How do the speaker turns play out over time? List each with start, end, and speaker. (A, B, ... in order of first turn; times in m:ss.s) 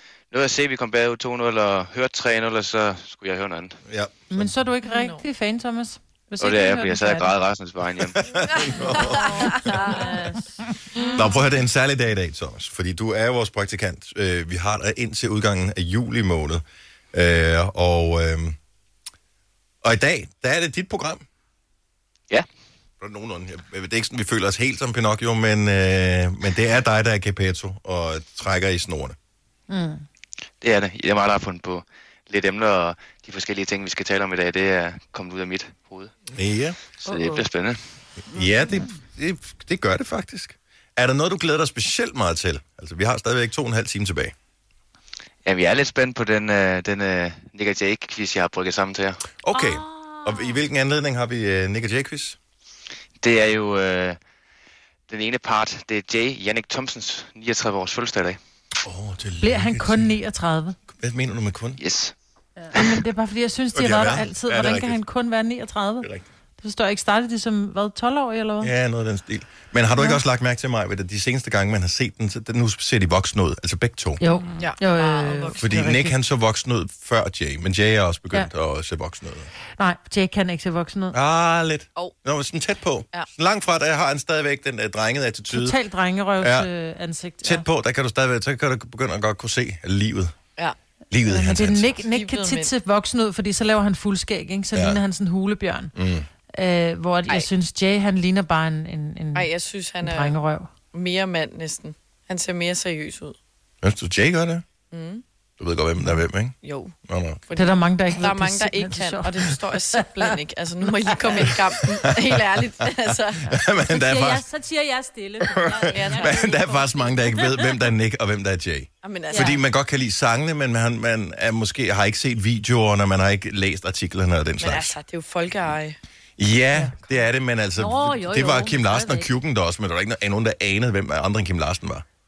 0:00.3-0:03.8 A
0:03.9-0:04.5 B
0:04.3-0:07.3 C
0:04.8-0:05.2 D
0:06.4-0:08.2 A
0:08.2-0:09.8 B
0:08.6-0:10.1 D
0:09.6-0:10.5 E
0:11.2-0:18.6 B
0:19.8-0:21.2 B
0:23.0-0:29.2 B
0:29.7-0:30.0 C
0:30.6-0:36.1 A
0:36.3-0:36.8 B
0:37.0-0:37.8 A
0:38.3-0:44.3 B
0:45.4-0:49.2 A
0:49.4-0:52.4 B
0:49.5-0:50.6 E
0:53.2-0:54.2 A
0:55.1-0:58.4 A
0:58.8-1:00.1 B
0:59.4-1:00.8 C
1:00.9-1:01.8 B
1:01.8-1:02.1 A
1:02.8-1:06.1 C
1:03.8-1:05.0 B
1:06.6-1:08.7 C
1:08.6-1:14.2 B
1:14.2-1:16.2 C
1:14.6-1:15.6 D
1:15.6-1:19.5 B
1:19.8-1:21.2 C
1:21.1-1:25.8 B
1:25.5-1:27.6 C
1:26.4-1:26.7 B
1:27.4-1:30.3 B
1:31.1-1:31.9 B
1:31.3-1:35.9 C
1:32.1-1:32.7 D
1:34.8-1:35.0 B
1:35.9-1:36.3 B
1:36.5-1:39.5 C
1:39.3-1:40.4 D
1:40.0-1:40.7 C
1:40.9-1:43.4 D
1:43.8-1:44.6 B
1:44.9-1:45.2 D
1:45.6-1:46.6 B
1:46.6-1:46.9 D
1:47.1-1:47.4 B
1:47.5-1:53.5 D
1:47.6-1:50.3 C
1:52.0-1:52.4 B
1:53.4-1:54.4 B
1:53.9-1:57.6 E
1:55.5-2:05.0 B
1:55.9-1:56.9 D
1:59.0-1:59.6 D
2:04.6-2:06.0 D
2:06.4-2:12.0 B
2:07.8-2:09.3 E